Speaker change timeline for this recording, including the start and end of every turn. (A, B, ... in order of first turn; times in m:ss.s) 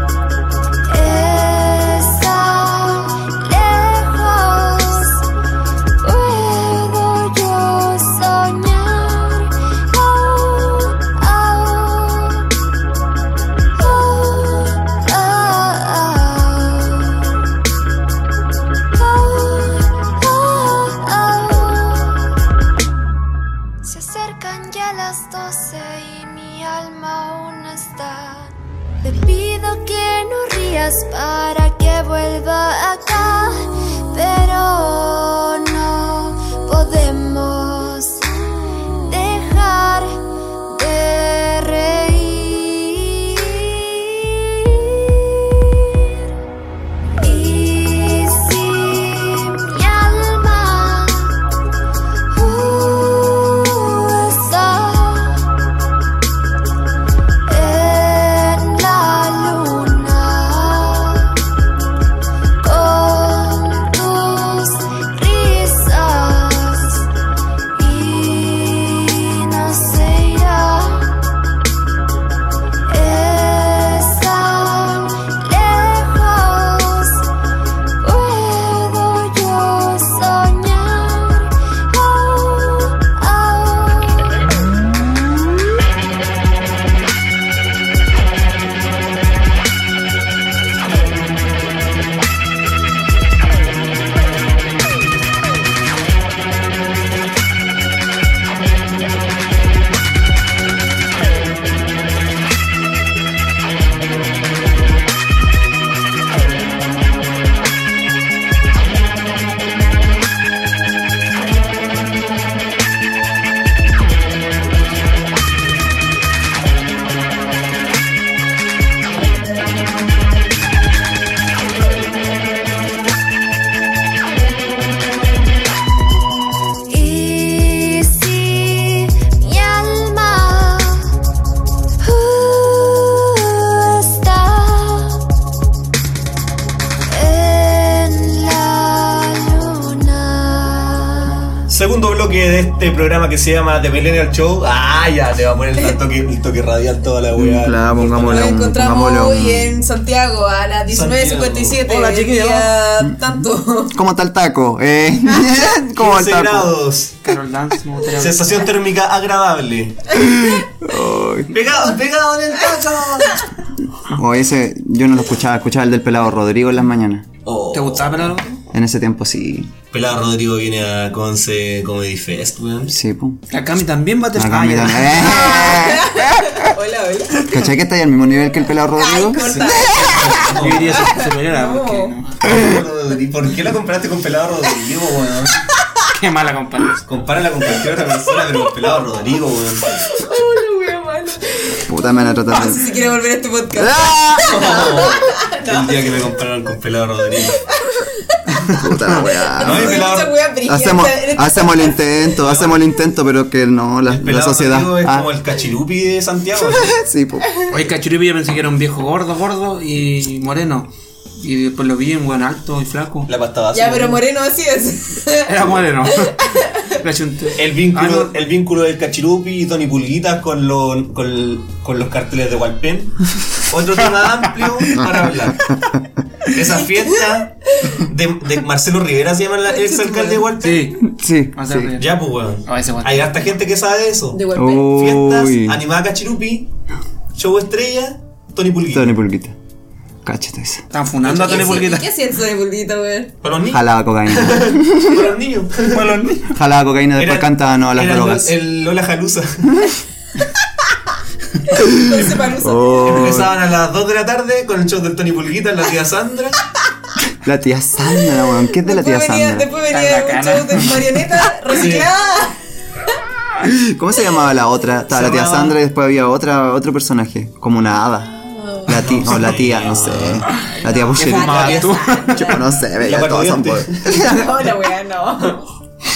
0:00.9-0:05.2 A
0:06.0-0:12.5 A
0:13.8-0:17.3 A
0:18.9-0:22.3 A
0:23.8-0:28.5 A
0:29.0-0:46.2 A
0:47.2-0:51.4 A
0:52.3-0:55.4 A
0:57.5-1:01.4 A
1:02.6-1:07.0 A
1:07.8-1:11.2 A
1:12.9-1:17.2 A
1:18.0-1:24.6 A
2:06.9-2:11.1 A
2:12.0-2:15.2 A
2:17.1-2:21.6 A
2:21.7-2:28.6 B
2:27.3-2:29.8 C
2:28.2-2:34.0 D
2:30.9-2:31.8 B
2:31.8-2:32.7 E
2:33.9-2:36.7 C
2:36.0-2:37.2 B
2:37.2-2:38.6 E
2:38.2-2:40.2 B
2:40.1-2:41.6 C
2:41.5-2:43.5 B
2:44.1-2:47.2 C
2:47.4-2:48.4 B
2:47.7-2:48.6 E
2:48.7-2:49.7 C
2:49.9-2:53.0 B
2:52.9-2:53.4 C
2:53.5-2:55.8 E
2:54.3-2:56.6 C
2:55.2-2:57.6 D
2:57.4-3:00.2 C
2:59.0-3:02.2 D
2:59.4-3:01.2 B
3:00.5-3:02.5 E
3:02.4-3:05.7 B
3:06.1-3:07.0 E
3:07.0-3:10.0 B
3:09.9-3:16.1 D
3:11.8-3:12.9 C
3:13.7-3:14.6 C
3:14.4-3:17.6 B
3:17.4-3:22.1 D
3:18.7-3:20.1 C
3:19.6-3:20.3 B
3:20.6-3:25.3 C
3:22.4-3:22.8 B
3:24.1-3:26.9 B
3:26.7-3:27.5 C
3:27.7-3:33.3 E
3:33.3-3:34.2 B
3:33.7-3:37.0 D
3:35.4-3:38.3 E
3:37.5-3:45.7 B
3:46.5-3:50.9 B
3:47.7-3:48.1 D
3:49.7-3:50.5 D
3:50.6-3:52.1 E
3:51.0-3:51.9 C
3:51.9-3:56.7 B
3:52.6-3:53.5 E
3:54.3-3:55.0 D
3:54.5-3:55.8 C
3:57.4-3:59.1 B
3:58.9-3:59.5 C
4:00.2-4:00.8 C
4:00.9-4:02.0 E
4:01.2-4:01.9 B
4:01.3-4:03.3 D
4:03.4-4:06.4 B
4:03.7-4:05.3 C
4:05.9-4:06.4 E
4:06.5-4:08.5 C
4:07.2-4:09.9 B
4:11.7-4:13.4 D
4:11.8-4:13.5 C
4:13.0-4:16.6 B
4:17.4-4:19.7 C
4:18.4-4:22.6 D
4:19.9-4:21.1 E
4:21.7-4:22.1 B
4:23.6-4:28.3 C
4:25.1-4:25.8 B
4:28.2-4:29.0 D
4:28.8-4:34.6 C
4:28.9-4:30.5 B
4:30.6-4:32.6 D
4:31.1-4:32.5 E
4:32.9-4:34.3 B
4:34.0-4:35.6 D